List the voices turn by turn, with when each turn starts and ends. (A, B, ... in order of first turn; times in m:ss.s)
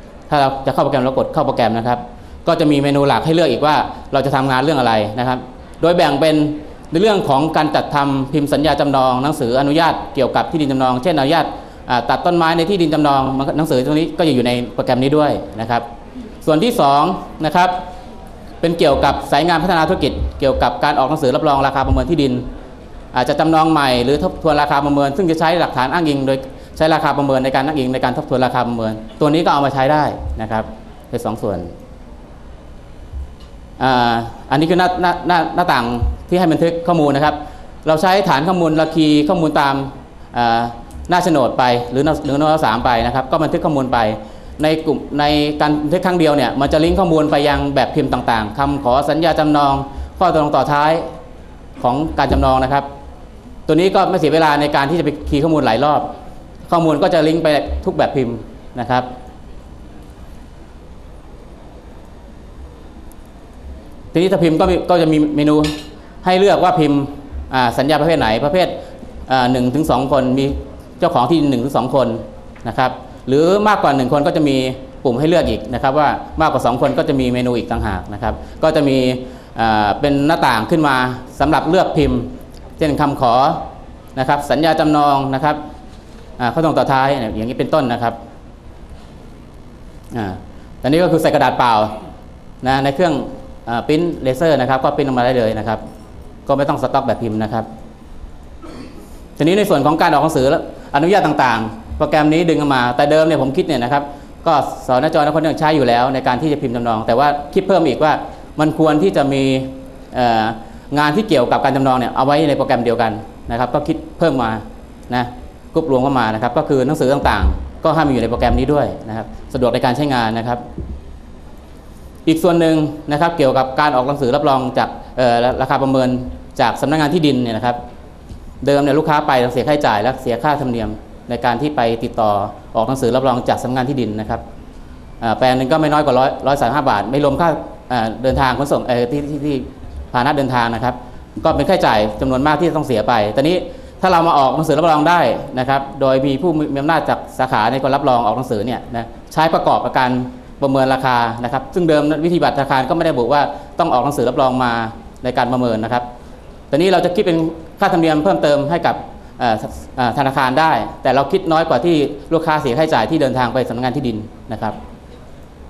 0:00.3-0:15.8 A
0:16.4-0:17.8 A
0:18.6-0:22.4 A
0:23.1-0:31.7 A
0:33.8-0:51.0 A
0:51.8-0:52.9 A
0:53.7-0:56.1 A
0:56.7-0:59.1 A
1:04.1-1:08.7 A
1:09.3-1:23.6 A
1:24.2-1:25.6 A
1:26.4-1:28.2 A
1:30.1-1:31.9 A
1:32.6-1:35.8 A
1:36.4-1:37.7 A
1:39.4-2:00.6 A
2:02.2-2:07.8 A
2:08.6-2:14.4 A
2:15.2-2:36.1 A
2:36.7-2:44.8 A